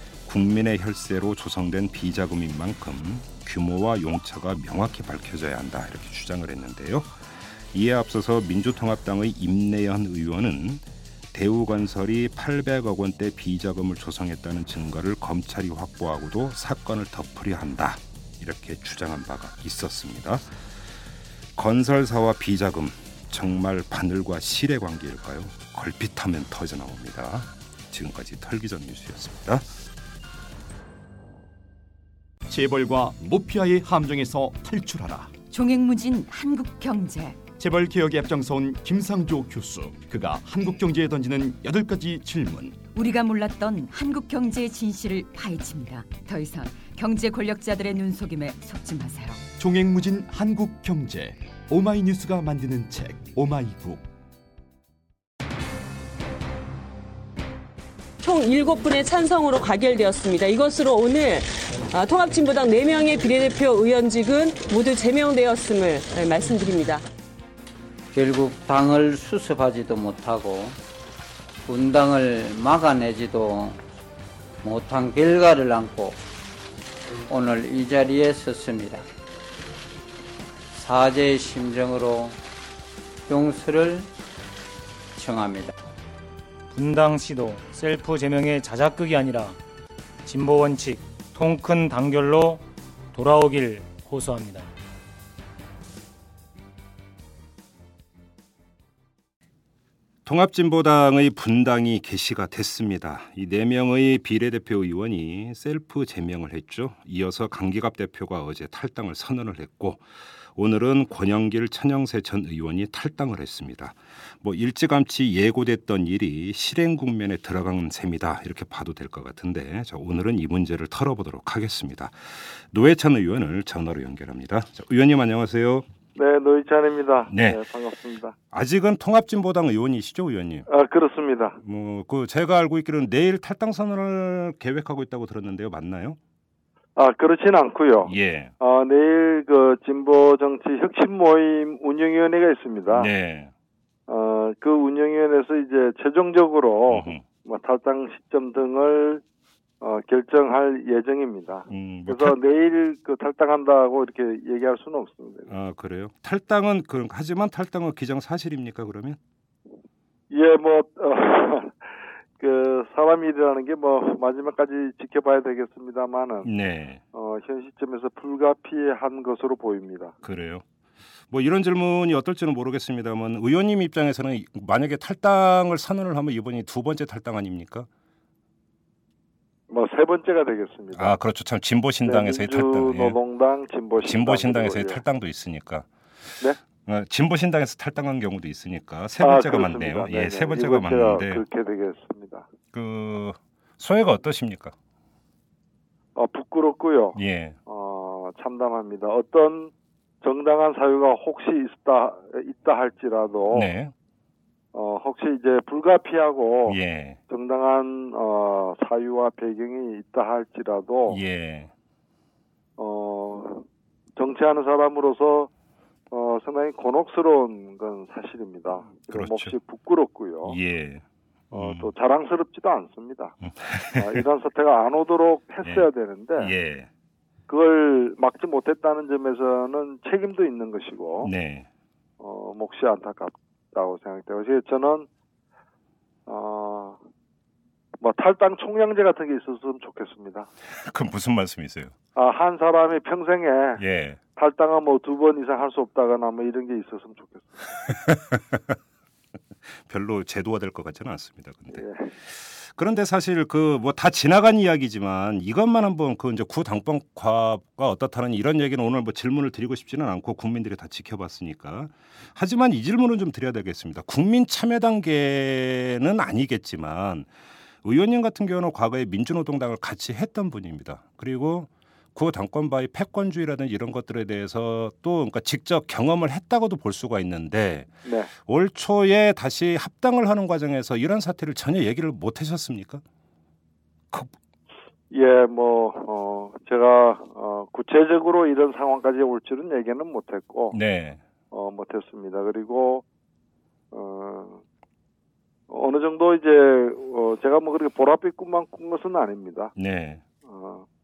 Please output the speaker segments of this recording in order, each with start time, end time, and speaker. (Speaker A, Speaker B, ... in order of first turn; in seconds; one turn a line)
Speaker A: 0.2-7.2
Speaker A: 7.7-20.5
Speaker A: 21.6-29.7
Speaker B: 32.5-35.3
Speaker C: 35.5-37.4
Speaker B: 37.6-42.8
Speaker C: 42.9-49.4
Speaker B: 49.6-54.1
Speaker D: 58.2-67.0
Speaker E: 68.2-70.8
Speaker E: 71.7-73.8
Speaker E: 74.6-76.2
Speaker E: 77.3-79.0
Speaker E: 80.8-82.4
Speaker E: 83.3-84.1
Speaker E: 85.2-85.7
Speaker F: 86.7-89.6
Speaker F: 90.2-94.7
Speaker A: 100.3-110.0
Speaker A: 110.5-122.2
Speaker A: 122.7-125.9
Speaker G: 126.2-128.3
Speaker A: 127.3-127.6
Speaker A: 128.5-130.7
Speaker G: 130.7-131.6
Speaker A: 131.6-136.2
Speaker G: 137.0-143.1
Speaker A: 138.0-138.5
Speaker A: 142.9-143.5
Speaker G: 144.1-149.2
Speaker A: 146.9-147.2
Speaker G: 149.8-155.5
Speaker A: 151.7-152.4
Speaker A: 155.5-159.2
Speaker G: 160.3-161.8
Speaker G: 162.4-166.5
Speaker A: 166.4-167.0
Speaker G: 167.1-170.2
Speaker A: 170.2-170.6
Speaker A: 171.3-177.9
Speaker G: 179.7-181.2
Speaker A: 180.9-183.2
Speaker G: 182.0-185.0
Speaker A: 184.0-185.9
Speaker A: 186.8-191.4
Speaker G: 189.2-192.5
Speaker A: 192.7-194.8
Speaker G: 196.2-203.7
Speaker A: 197.2-197.6
Speaker A: 203.5-203.9
Speaker G: 204.7-206.8
Speaker A: 206.7-207.2
Speaker G: 207.3-211.2
Speaker A: 211.1-211.7
Speaker G: 212.8-215.5
Speaker G: 216.1-220.6
Speaker A: 219.0-219.6
Speaker A: 220.4-221.9
Speaker G: 221.5-223.4
Speaker A: 223.4-224.2
Speaker G: 223.9-226.5
Speaker A: 226.4-226.9
Speaker G: 227.5-231.3
Speaker A: 231.2-231.7
Speaker G: 232.2-235.1
Speaker G: 236.3-237.0
Speaker G: 238.0-240.5
Speaker A: 240.8-241.9
Speaker G: 242.2-243.8
Speaker A: 243.8-244.2
Speaker G: 244.4-247.7
Speaker A: 247.9-248.8
Speaker A: 249.8-267.3
Speaker G: 251.7-252.1
Speaker A: 267.8-277.9
Speaker G: 278.1-278.3
Speaker A: 278.5-283.0
Speaker G: 285.1-290.8
Speaker A: 290.7-291.2
Speaker G: 291.5-293.0
Speaker G: 293.9-294.6
Speaker G: 295.7-299.7
Speaker A: 299.8-300.2
Speaker G: 300.5-300.9